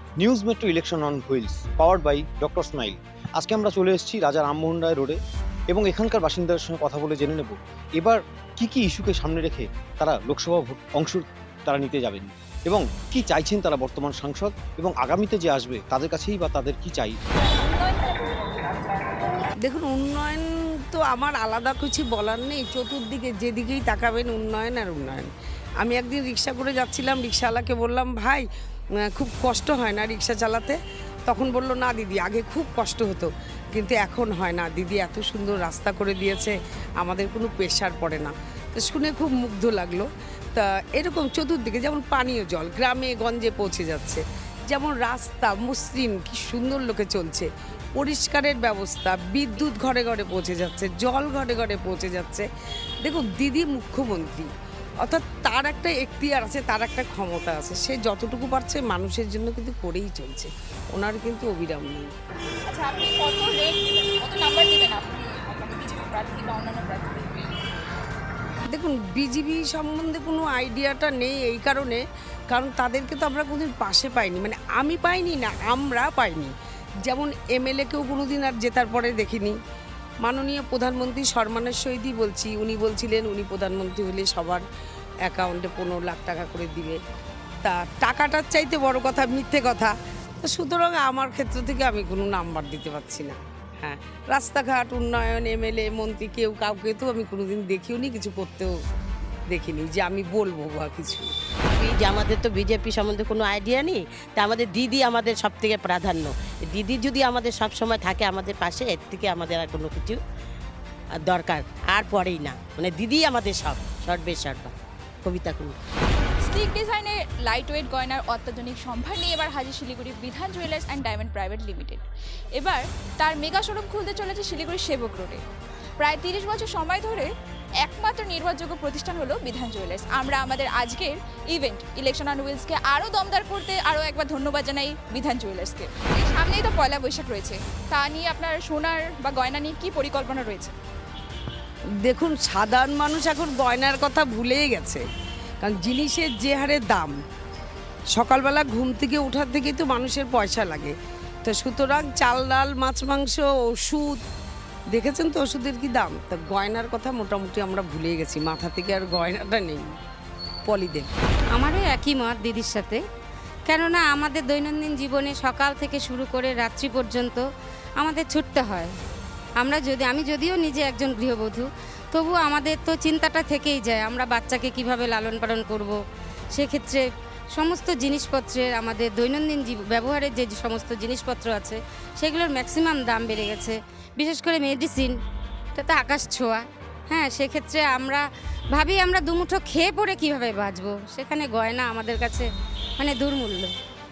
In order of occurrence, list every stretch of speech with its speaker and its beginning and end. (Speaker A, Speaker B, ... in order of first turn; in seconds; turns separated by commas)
Speaker A: 0.2-5.2, Speaker A: 5.7-17.2, Speaker B: 17.4-19.3, Speaker C: 19.6-28.5, Speaker C: 29.0-52.5, Speaker C: 53.0-54.5, Speaker C: 55.0-62.1, Speaker B: 62.6-67.6, Speaker C: 68.7-79.6, Speaker C: 80.2-84.6, Speaker C: 85.2-87.0, Speaker C: 87.6-98.8, Speaker C: 99.5-101.3, Speaker D: 101.7-110.2, Speaker D: 111.3-114.7, Speaker D: 115.2-115.8, Speaker B: 116.4-122.0, Speaker B: 122.5-125.4, Speaker B: 126.0-127.3, Speaker B: 127.8-140.8, Speaker C: 142.0-145.0, Speaker C: 145.6-147.2, Speaker C: 148.1-154.2, Speaker C: 154.9-159.9, Speaker C: 160.7-161.1, Speaker E: 161.5-163.0, Speaker E: 163.7-167.5, Speaker E: 168.0-168.9, Speaker E: 169.6-176.0, Speaker E: 176.6-177.0, Speaker E: 177.6-185.2, Speaker E: 185.8-193.7